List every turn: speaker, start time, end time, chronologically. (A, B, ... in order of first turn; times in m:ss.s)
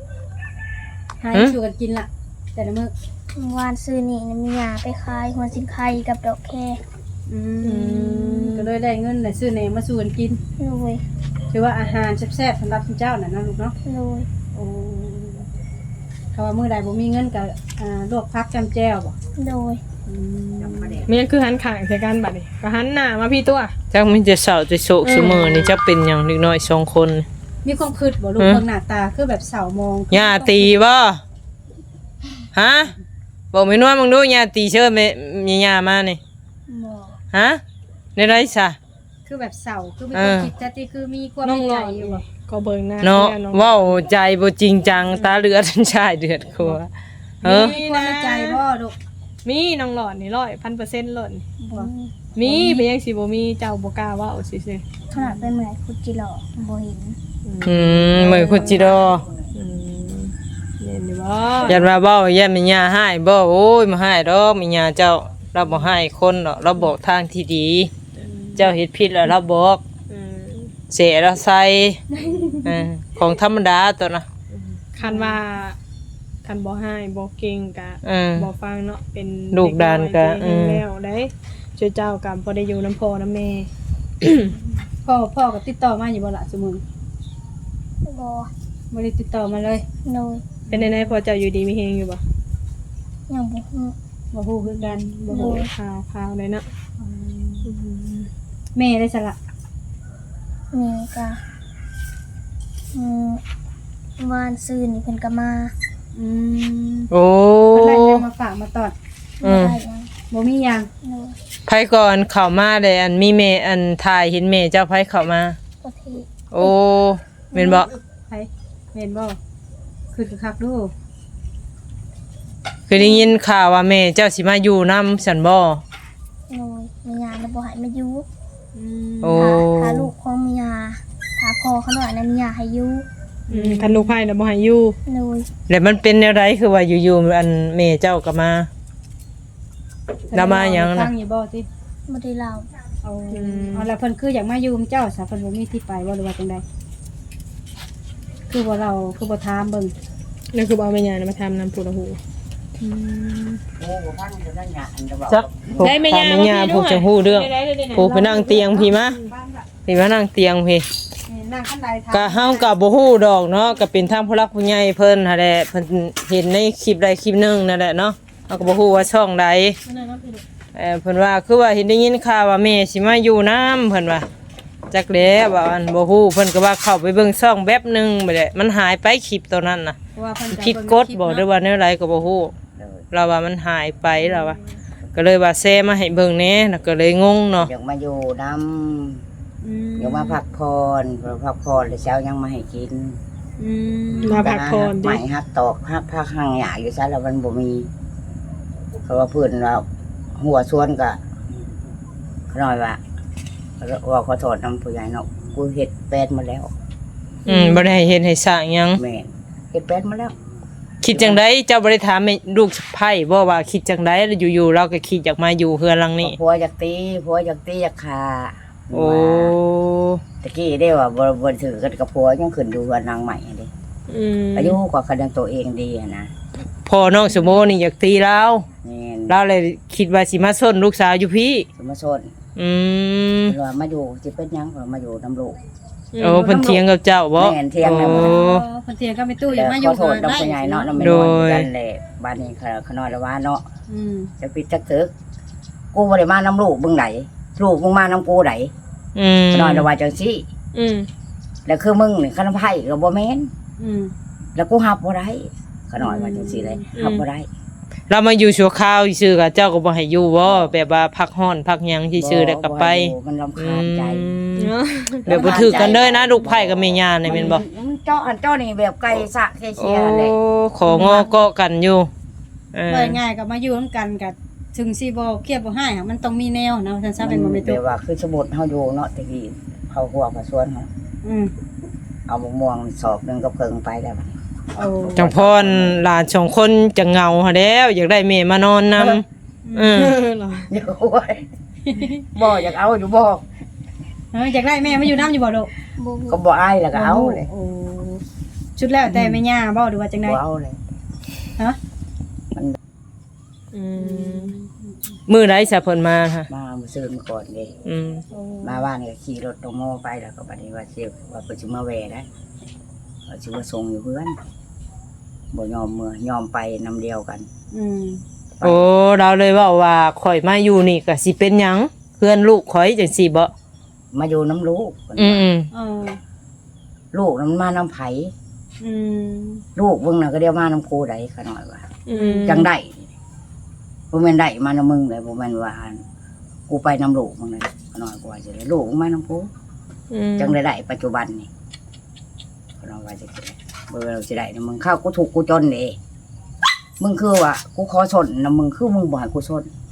0:01.2-0:02.9 A
0:03.4-0:06.8 B
0:07.3-0:10.4 A
0:07.6-0:08.7 C
0:10.6-0:11.0 B
0:11.5-0:13.8 A
0:13.9-0:14.3 B
0:14.5-0:15.5 A
0:16.3-0:19.2 A
0:19.4-0:19.8 B
0:20.1-0:21.0 A
0:20.6-0:21.1 D
0:21.1-0:23.8 C
0:23.9-0:27.3 E
0:25.0-0:25.8 C
0:27.6-0:30.8 A
0:28.4-0:28.6 E
0:30.1-0:31.2 E
0:32.5-0:32.9 E
0:33.5-0:36.2 E
0:36.7-0:37.2 B
0:37.3-0:37.6 E
0:38.2-0:38.8 E
0:39.3-0:42.2 A
0:40.1-0:40.5 E
0:41.4-0:44.0 C
0:43.0-0:46.9 E
0:45.1-0:45.4 C
0:47.4-0:48.6 C
0:47.4-0:47.8 E
0:47.4-0:49.0 A
0:49.4-0:51.4 C
0:51.6-0:52.8 B
0:52.4-0:54.8 C
0:55.1-0:57.2 B
0:55.2-0:55.5 A
0:57.4-0:59.0 C
0:57.7-0:59.2 E
0:58.3-0:58.8 A
0:59.0-0:59.3 D
0:59.6-1:01.9 C
1:01.7-1:07.9 E
1:08.2-1:08.7 C
1:08.6-1:09.8 E
1:10.1-1:10.7 C
1:10.9-1:12.0 E
1:12.3-1:12.7 B
1:12.6-1:14.3 E
1:14.5-1:15.8 C
1:15.0-1:15.4 A
1:16.4-1:23.7 C
1:18.0-1:18.5 E
1:19.5-1:20.8 E
1:24.2-1:24.6 C
1:25.0-1:26.8 A
1:28.0-1:28.5 B
1:28.9-1:29.8 A
1:30.0-1:30.4 B
1:30.7-1:31.1 A
1:30.7-1:32.2 C
1:33.3-1:34.0 B
1:34.3-1:35.7 A
1:35.3-1:35.7 B
1:35.3-1:36.6 C
1:37.0-1:37.7 A
1:37.6-1:38.3 C
1:38.8-1:39.4 A
1:40.7-1:41.4 B
1:42.9-1:43.4 B
1:44.2-1:45.7 B
1:46.2-1:47.1 A
1:47.1-1:48.2 E
1:47.7-1:48.9 A
1:49.4-1:50.1 B
1:49.4-1:49.8 E
1:50.3-1:50.9 A
1:51.0-1:51.4 B
1:51.7-1:55.6 E
1:55.8-1:56.7 B
1:56.5-1:57.9 E
1:57.5-1:57.9 B
1:58.3-1:59.4 A
2:00.1-2:00.9 A
2:02.9-2:05.8 E
2:03.0-2:03.3 B
2:06.5-2:08.3 B
2:08.8-2:09.6 A
2:09.2-2:10.1 E
2:09.3-2:13.1 B
2:13.5-2:14.1 A
2:13.5-2:15.0 C
2:15.1-2:15.5 B
2:15.7-2:18.7 E
2:20.3-2:21.7 A
2:20.3-2:21.1 E
2:22.1-2:22.7 B
2:23.0-2:26.6 A
2:23.3-2:23.9 C
2:28.5-2:29.9 A
2:30.5-2:32.2 C
2:32.8-2:33.6 A
2:33.8-2:36.0 D
2:35.3-2:39.2 E
2:35.8-2:39.3 C
2:38.5-2:39.7 A
2:39.9-2:40.8 E
2:41.3-2:42.7 A
2:42.1-2:49.8 E
2:49.9-2:50.4 A
2:50.8-2:54.3 E
2:54.9-3:00.0 E
3:00.2-3:01.5 A
3:00.5-3:02.5 E
3:02.8-3:03.0 D
3:03.1-3:04.6 E
3:05.2-3:07.7 E
3:07.6-3:09.2 D
3:09.6-3:10.4 A
3:10.0-3:13.2 D
3:13.6-3:14.6 A
3:14.2-3:15.2 C
3:14.3-3:17.9 D
3:19.0-3:19.8 D
3:20.4-3:21.2 D
3:22.5-3:23.0 D
3:23.8-3:26.7 D
3:27.5-3:29.0 E
3:27.5-3:27.8 C
3:29.0-3:30.4 D
3:31.0-3:36.4 E
3:31.1-3:31.4 D
3:36.2-3:39.6 D
3:38.9-3:40.2 E
3:40.4-3:43.7 D
3:44.1-3:44.8 C
3:44.6-3:46.3 D
3:46.9-3:48.7 E
3:48.8-3:49.4 D
3:49.3-3:51.7 E
3:51.8-3:52.3 D
3:52.6-3:53.6 E
3:53.5-3:55.6 D
3:56.1-3:56.7 C
3:56.2-3:58.6 E
3:57.4-3:58.4 D
3:58.1-4:01.2 A
3:59.5-4:03.6 D
4:01.0-4:01.7 E
4:03.9-4:04.3 A
4:04.4-4:05.1 D
4:05.9-4:08.7 D
4:09.2-4:09.9 E
4:09.5-4:10.5 D
4:10.7-4:11.1 C
4:11.7-4:13.5 D
4:13.8-4:14.1 A
4:14.6-4:17.5 D
4:16.0-4:16.8 A
4:17.0-4:17.2 C
4:18.1-4:24.7 E
4:22.2-4:24.4 D
4:24.6-4:25.4 C
4:25.3-4:27.6 E
4:25.3-4:30.4 D
4:25.4-4:25.9 A
4:29.8-4:32.1 E
4:30.9-4:31.4 A
4:32.7-4:33.2 E
4:32.9-4:37.8 A
4:37.2-4:40.9 D
4:41.2-4:41.5 A
4:42.3-4:46.0 D
4:44.8-4:45.2 A
4:45.2-4:49.2 E
4:49.0-4:49.2 D
4:49.6-4:50.1 A
4:49.8-4:50.2 E
4:49.9-4:50.7 C
4:50.7-4:51.5 D
4:51.9-4:52.2 A
4:52.2-4:53.4 D
4:54.3-4:55.7 A
4:56.0-4:56.4 B
4:56.3-4:57.5 D
4:56.9-4:58.2 A
4:58.8-5:00.4 A
4:59.1-4:59.4 D
5:00.2-5:00.8 D
5:02.5-5:02.8 D
5:03.7-5:04.6 C
5:04.0-5:05.2 A
5:05.3-5:06.5 E
5:06.5-5:07.8 D
5:07.9-5:08.2 E
5:08.3-5:08.8 A
5:08.6-5:12.3 D
5:13.3-5:14.4 D
5:15.5-5:17.5 D
5:17.7-5:18.2 A
5:18.6-5:23.5 E
5:24.1-5:25.5 D
5:25.2-5:25.7 E
5:25.7-5:26.2 A
5:27.1-5:28.3 D
5:28.8-5:29.6 A
5:29.8-5:31.9 D
5:32.1-5:32.7 C
5:32.1-5:32.7 A
5:32.4-5:33.1 D
5:34.1-5:36.0 D
5:36.7-5:39.5 D
5:40.1-5:40.6 C
5:40.4-5:41.5 D
5:42.8-5:46.0 D
5:47.0-5:49.7 D